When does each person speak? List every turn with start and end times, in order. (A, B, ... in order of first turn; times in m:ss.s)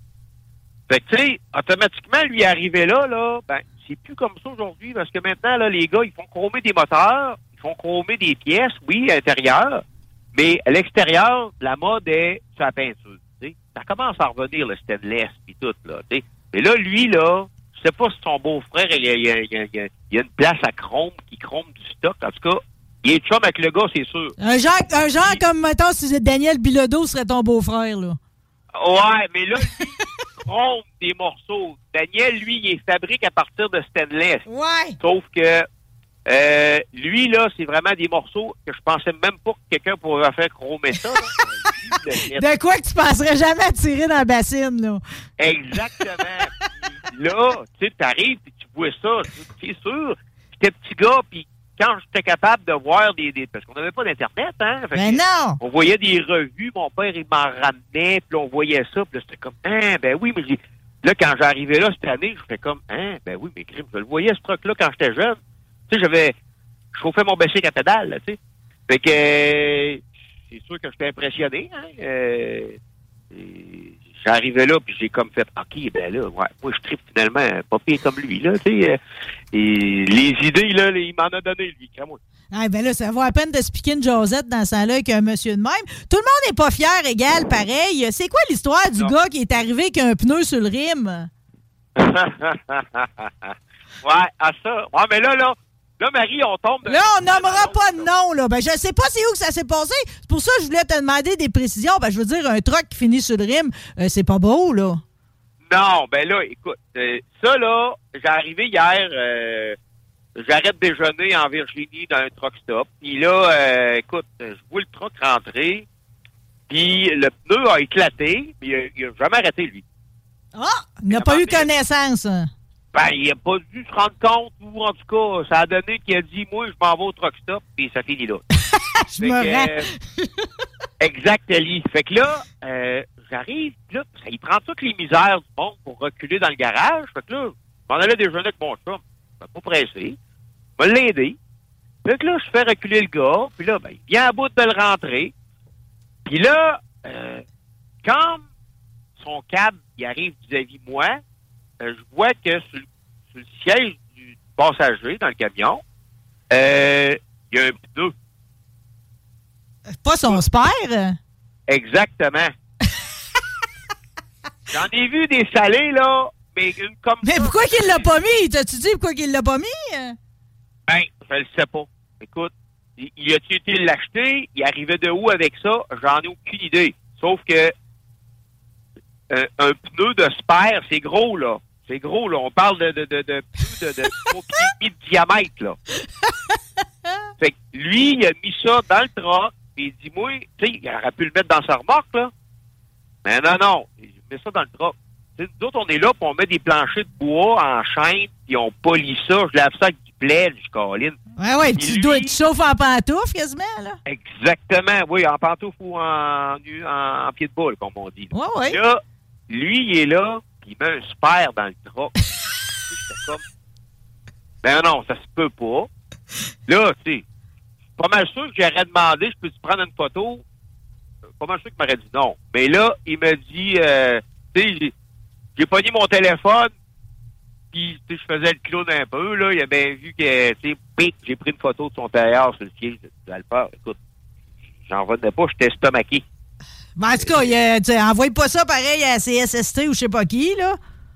0:00.9-0:09.8 A
0:10.3-0:24.4 A
0:24.4-0:28.2 B
0:28.7-0:34.4 A
0:34.5-0:35.0 B
0:35.0-0:35.7 A
0:36.3-0:42.5 A
0:42.3-0:45.0 B
0:45.4-0:46.5 A
0:47.1-1:05.4 A
0:55.0-0:55.6 B
1:05.9-1:06.3 A
1:07.0-1:08.4 A
1:08.9-1:12.8 A
1:13.3-1:19.0 A
1:19.5-1:22.2 A
1:22.5-1:31.3 B
1:32.0-1:33.5 A
1:34.0-1:38.1 A
1:36.9-1:45.0 B
1:45.7-1:49.8 A
1:50.4-1:55.8 A
1:56.7-1:59.8 A
2:00.6-2:02.5 B
2:01.1-2:01.7 A
2:02.9-2:08.4 A
2:09.0-2:10.3 B
2:09.2-2:09.9 A
2:11.0-2:20.2 A
2:20.8-2:21.4 A
2:22.0-2:25.3 A
2:26.3-2:27.4 A
2:28.0-2:28.4 A
2:29.2-2:31.2 A
2:31.8-2:32.8 A
2:33.4-2:35.8 A
2:36.5-2:38.1 A
2:40.0-2:41.2 B
2:41.7-2:42.5 A
2:44.7-2:48.1 A
2:47.2-2:50.2 B
2:50.9-2:57.7 A
2:59.3-3:05.8 A
3:07.4-3:12.3 A
3:13.2-3:21.2 A
3:21.4-3:24.0 B
3:21.8-3:22.3 A
3:24.1-3:32.1 A
3:28.3-3:28.8 B
3:32.9-3:33.4 A
3:34.6-3:35.9 A
3:36.7-3:37.2 A
3:38.0-3:40.4 A
3:41.4-3:44.9 A
3:45.6-3:46.7 A
3:47.7-3:54.0 A
3:54.9-3:56.2 A
3:57.0-4:00.8 B
3:57.2-3:57.5 A